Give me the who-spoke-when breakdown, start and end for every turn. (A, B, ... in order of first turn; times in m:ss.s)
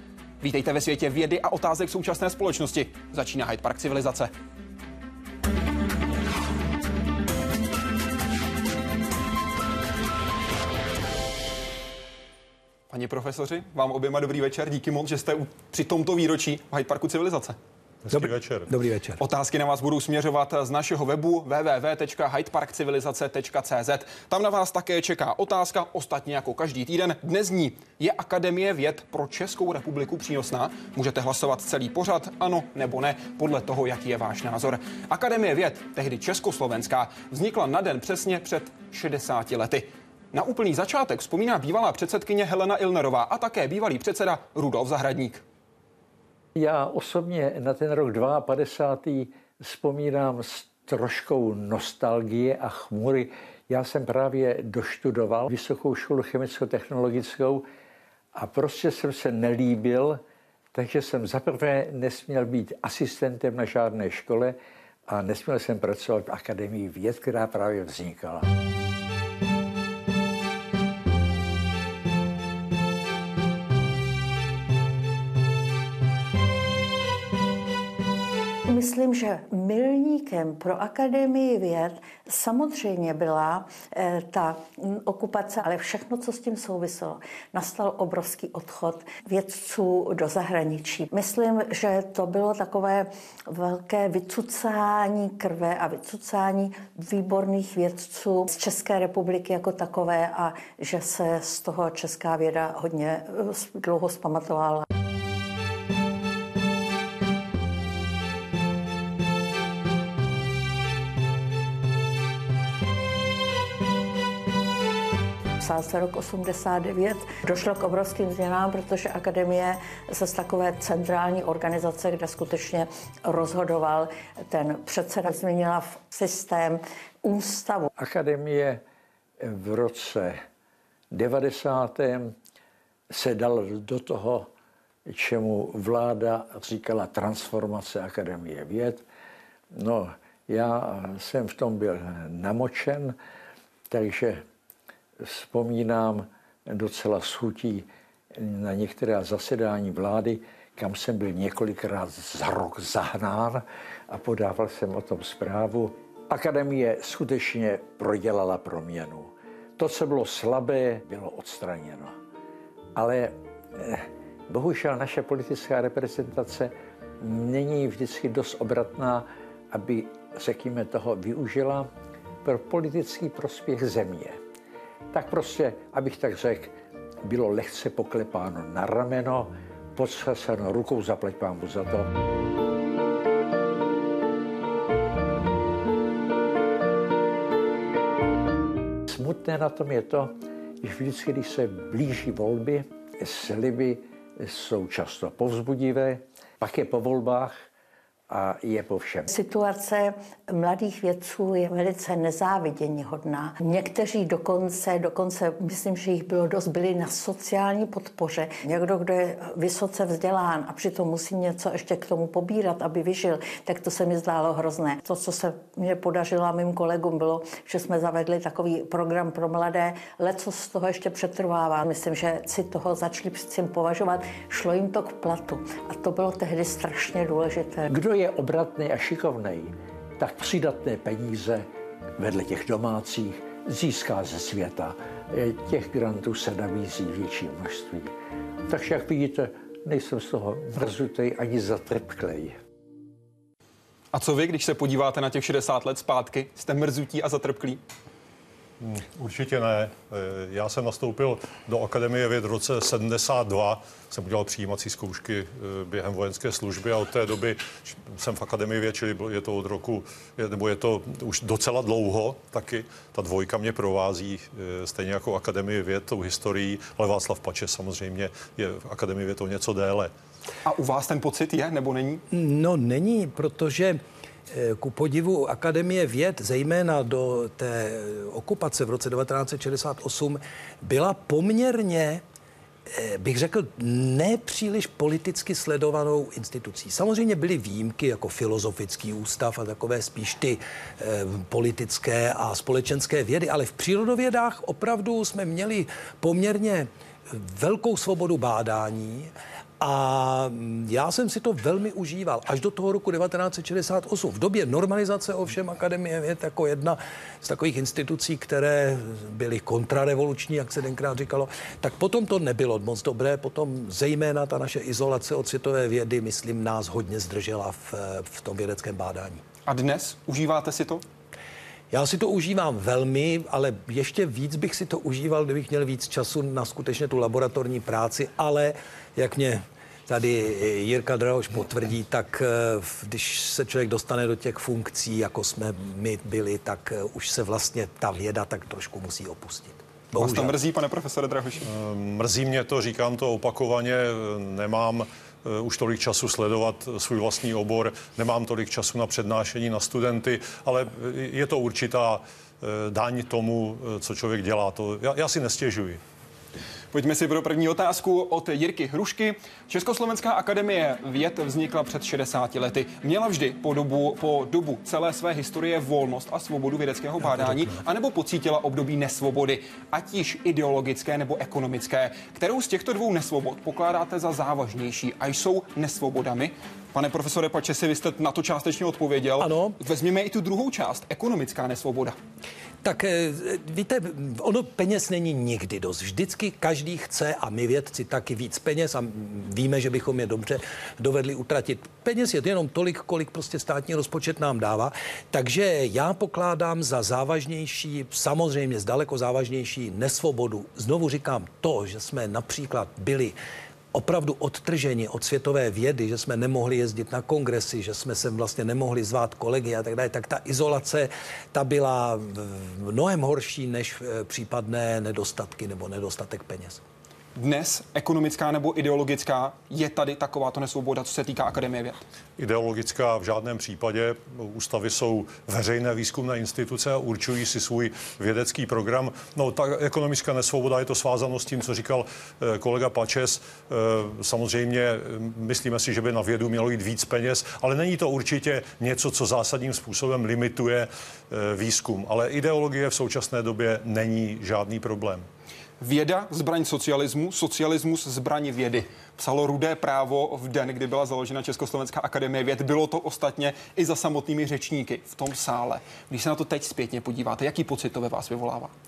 0:00.4-0:04.3 A
0:12.9-0:17.6 A
0:18.0-0:18.7 B
0:18.1-0:19.2 C
0:19.2-0:45.4 A
0:46.6-0:57.7 D
0:58.4-1:00.2 D
1:00.7-1:08.5 D
1:18.7-1:44.8 E
1:55.6-2:07.9 E
2:08.0-2:08.8 D
2:09.4-2:10.4 D
2:11.1-2:12.4 D
2:13.1-2:14.5 D
2:15.1-2:19.0 D
2:19.7-2:23.2 D
2:23.9-2:24.4 D
2:25.2-2:42.2 D
2:43.0-2:51.9 D
2:52.4-2:54.4 D
2:55.1-3:02.1 D
3:09.1-3:17.6 D
3:18.3-3:19.3 D
3:19.3-3:47.9 E
3:47.9-3:51.7 D
3:52.2-3:58.1 D
3:58.7-4:02.6 D
4:04.1-4:07.8 A
4:08.8-4:30.1 B
4:30.6-4:32.2 A
4:32.3-4:34.0 C
4:34.5-4:42.2 C
4:42.9-5:19.4 C
5:19.7-5:21.0 A
5:21.9-5:40.6 C
5:40.1-5:41.7 A
5:41.6-5:56.0 B
5:56.9-6:22.2 A
6:19.4-6:19.8 C
6:22.8-6:43.4 C
6:43.9-6:56.8 C
6:57.4-7:02.0 A
7:02.4-7:25.3 B
7:25.8-7:38.7 A